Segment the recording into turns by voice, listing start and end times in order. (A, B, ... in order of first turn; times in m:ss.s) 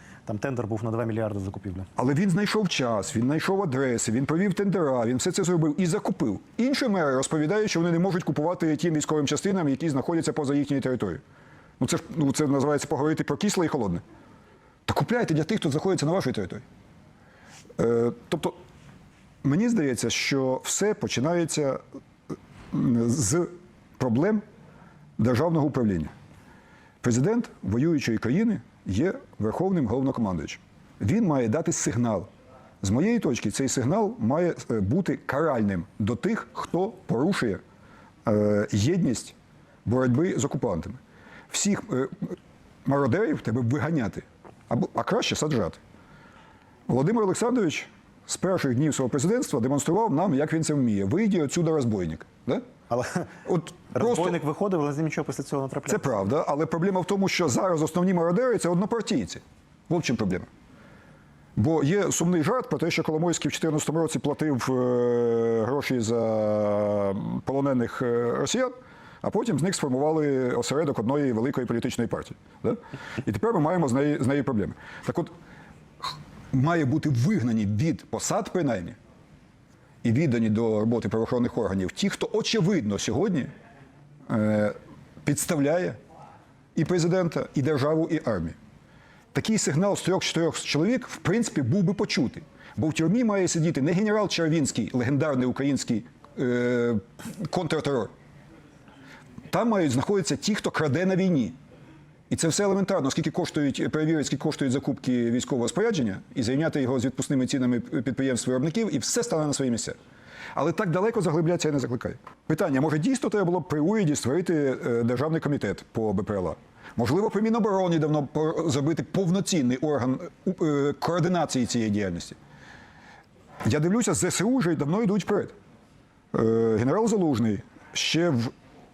0:00.3-0:01.9 A
0:02.0-0:11.2 B
0:11.8-0:14.0 B
0:14.9-0:16.6 B
0:17.8-0:18.6 B
0:19.4-0:21.8 B
0:22.7-0:24.4 B
0:25.2-0:26.1 B
0:27.0-0:32.3 B
0:32.8-0:37.6 B
0:38.2-0:39.3 B
0:39.8-0:41.0 B
0:41.5-0:45.8 B
0:46.9-0:52.6 B
0:52.9-0:53.3 A
0:53.4-0:54.4 B
0:53.9-0:56.2 A
0:55.9-1:00.5 B
1:01.6-1:15.3 B
1:16.0-1:19.0 B
1:20.0-1:23.5 B
1:24.3-1:26.0 B
1:26.8-1:28.5 B
1:29.3-1:38.1 B
1:39.5-1:41.6 B
1:42.3-1:50.0 B
1:50.5-2:02.4 B
2:03.6-2:05.5 B
2:06.3-2:08.5 B